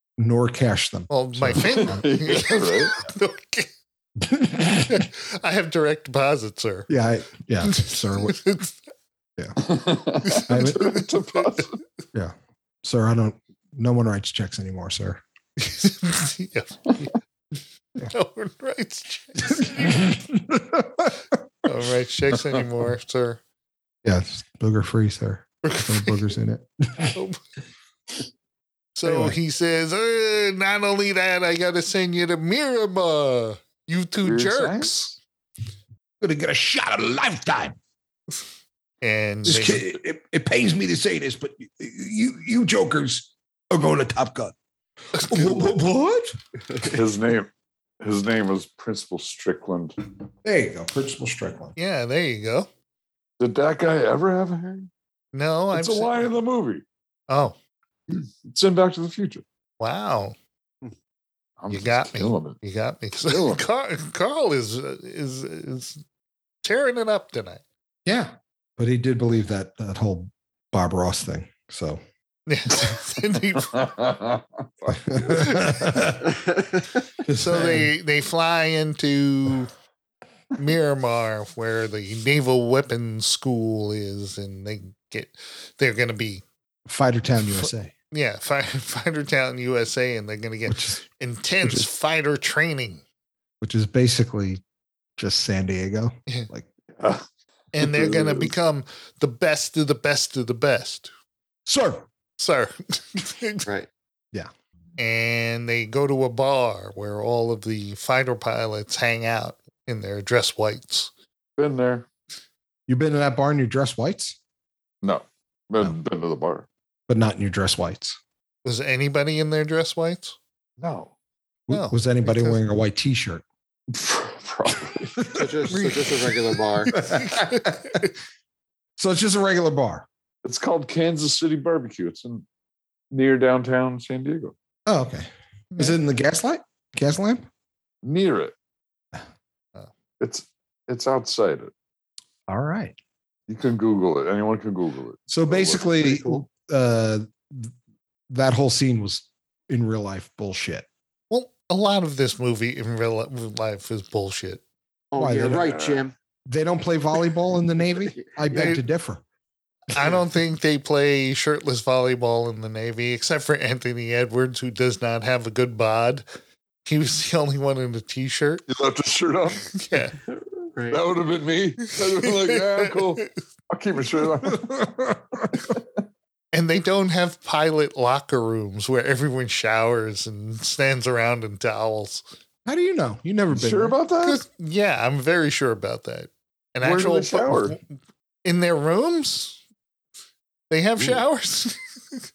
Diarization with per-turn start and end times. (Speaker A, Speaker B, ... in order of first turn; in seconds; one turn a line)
Speaker A: 0.2-2.1
Speaker B: 1.1-3.7
Speaker C: 1.6-3.0
Speaker A: 4.2-5.1
Speaker B: 4.9-6.9
Speaker A: 6.9-8.4
Speaker B: 7.6-8.8
Speaker C: 9.6-11.7
Speaker B: 10.2-11.7
Speaker A: 10.5-11.0
Speaker A: 12.1-15.2
Speaker B: 15.6-17.0
Speaker B: 18.0-20.1
Speaker A: 19.6-21.4
Speaker B: 21.6-23.4
Speaker A: 24.0-27.2
Speaker B: 25.6-26.2
Speaker B: 27.1-27.4
Speaker B: 28.9-35.2
Speaker A: 29.1-29.4
Speaker C: 34.2-35.0
Speaker A: 36.2-37.8
Speaker B: 39.0-39.9
Speaker A: 39.5-44.5
Speaker B: 45.1-45.8
Speaker A: 45.3-46.3
Speaker C: 46.8-47.5
Speaker C: 48.0-50.0
Speaker A: 50.5-51.7
Speaker B: 51.8-52.7
Speaker C: 53.4-54.9
Speaker B: 55.3-56.2
Speaker C: 55.7-56.9
Speaker B: 57.3-57.5
Speaker C: 58.1-59.4
Speaker B: 59.8-60.4
Speaker C: 61.6-62.6
Speaker B: 61.7-66.0
Speaker C: 63.3-63.6
Speaker B: 66.6-67.6
Speaker A: 68.1-72.0
Speaker B: 72.5-73.8
Speaker C: 73.6-75.5
Speaker A: 74.9-76.3
Speaker B: 75.2-76.0
Speaker D: 76.3-76.8
Speaker A: 77.2-77.9
Speaker B: 77.3-79.7
Speaker B: 80.6-86.4
Speaker A: 86.9-87.9
Speaker B: 87.6-93.0
Speaker A: 90.7-91.0
Speaker A: 93.6-94.6
Speaker A: 95.2-96.7
Speaker C: 96.9-97.2
Speaker B: 97.7-101.1
Speaker C: 97.8-98.5
Speaker A: 101.7-102.1
Speaker B: 102.4-103.7
Speaker B: 105.0-111.1
Speaker C: 111.6-112.1
Speaker A: 112.9-114.4
Speaker C: 115.0-116.7
Speaker A: 117.1-118.2
Speaker B: 118.6-120.4
Speaker C: 120.8-121.1
Speaker A: 121.7-123.4
Speaker B: 121.7-122.6
Speaker C: 123.9-125.2
Speaker D: 125.3-127.0
Speaker A: 125.7-126.0
Speaker B: 126.9-128.1
Speaker A: 126.9-128.1
Speaker A: 129.0-130.1
Speaker C: 130.4-132.4
Speaker C: 133.1-134.5
Speaker A: 134.9-137.5
Speaker C: 138.0-138.6
Speaker C: 140.2-141.7
Speaker A: 142.5-142.9
Speaker C: 143.5-145.8
Speaker A: 145.3-147.7
Speaker D: 145.9-146.4
Speaker A: 148.3-150.9
Speaker B: 151.3-154.6
Speaker D: 155.1-156.1
Speaker A: 155.2-155.7
Speaker C: 155.4-156.0
Speaker A: 156.5-159.2
Speaker D: 158.0-158.8
Speaker B: 158.5-158.8
Speaker B: 159.9-166.2
Speaker B: 166.8-168.6
Speaker C: 168.7-169.7
Speaker B: 169.8-170.2
Speaker D: 170.3-171.0
Speaker C: 170.9-174.8
Speaker B: 172.2-173.2
Speaker A: 174.4-175.6
Speaker B: 176.5-182.2
Speaker A: 182.7-184.0
Speaker C: 183.5-184.4
Speaker B: 184.2-187.8
Speaker C: 186.8-187.8
Speaker B: 188.4-189.6
Speaker B: 190.7-191.8